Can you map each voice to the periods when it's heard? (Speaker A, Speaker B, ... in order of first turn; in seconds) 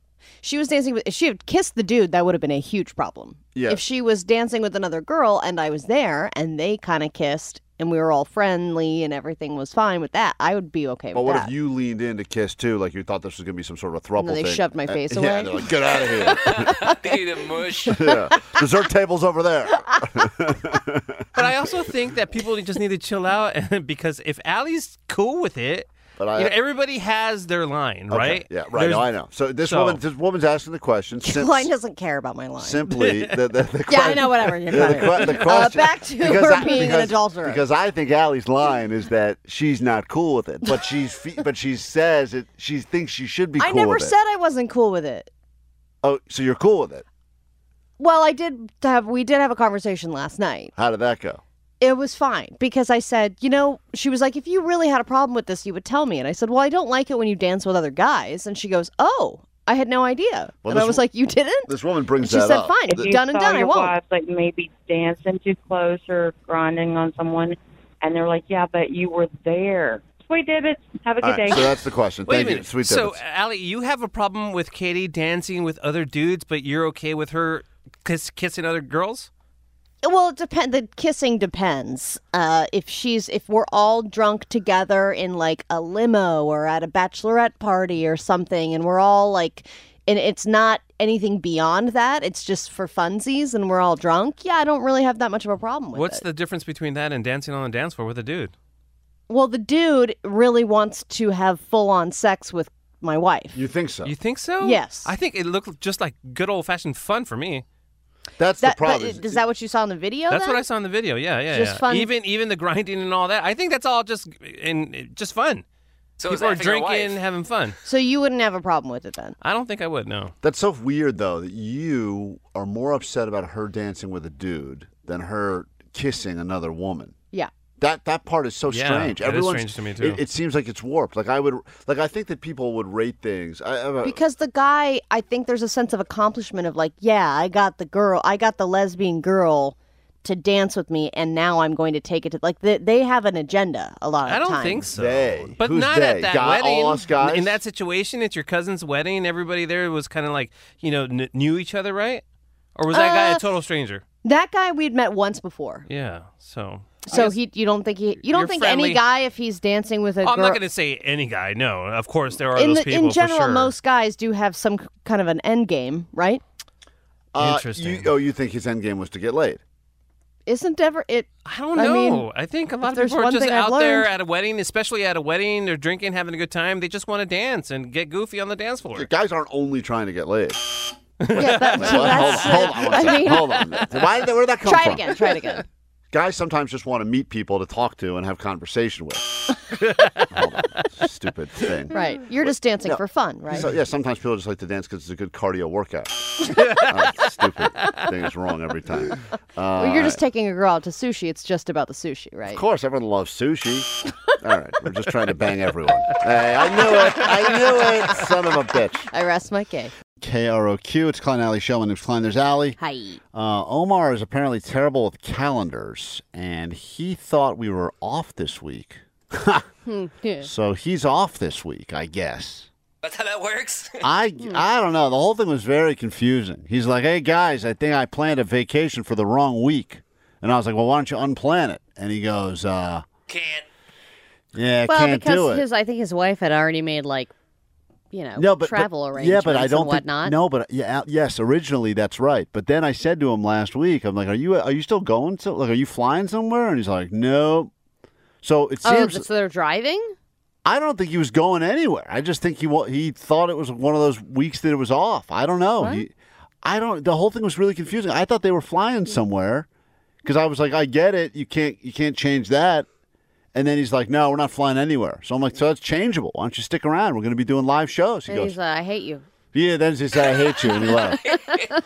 Speaker A: 0.4-11.5, 14.2-16.9, 31.2-32.8, 33.9-37.6, 43.6-45.3, 48.0-50.7, 51.8-63.9, 80.0-96.2, 99.3-103.6, 104.6-105.1, 108.6-110.6, 111.5-112.1, 117.8-119.4, 134.0-144.9, 152.9-153.4, 154.2-155.8, 157.1-160.6, 162.5-166.4, 170.4-172.3, 172.8-174.1, 181.3-183.6, 184.6-185.6, 191.9-193.7, 199.8-202.6, 209.1-209.9, 212.8-213.2, 219.8-220.5, 234.9-237.3, 238.1-240.3, 248.8-250.1, 268.3-269.2, 271.3-271.6
Speaker B: 3.5-3.8, 11.1-16.7, 17.9-21.2, 26.2-26.5, 28.1-31.7, 32.6-44.1, 46.0-47.0, 50.7-51.4, 60.6-61.0, 61.7-63.1, 71.2-73.2, 103.5-104.1, 108.4-109.4, 120.4-127.1, 127.8-134.2, 144.9-147.6, 167.3-169.6, 178.9-180.8, 181.3-185.2, 186.1-189.5, 190.3-200.2, 202.5-203.9, 204.4-209.1, 210.2-212.8, 213.3-219.7, 220.4-222.7, 224.0-233.0, 234.5-235.6, 238.4-247.7, 248.4-249.3, 250.6-259.7, 260.2-262.9, 263.5-268.6, 269.5-271.3
Speaker C: 16.3-18.1, 116.2-117.2, 223.0-224.0, 233.3-233.7
Speaker D: 21.3-30.0, 33.0-33.3, 34.8-35.3, 72.2-79.3, 95.9-98.5, 104.0-107.6, 110.3-115.6, 116.2-117.8, 119.4-120.3, 128.7-130.2, 144.2-152.2, 152.7-154.0, 155.9-157.4, 158.2-159.0, 160.2-163.7, 167.4-168.1, 171.4-179.1, 181.2-183.8, 189.8-190.4
Speaker E: 62.9-71.7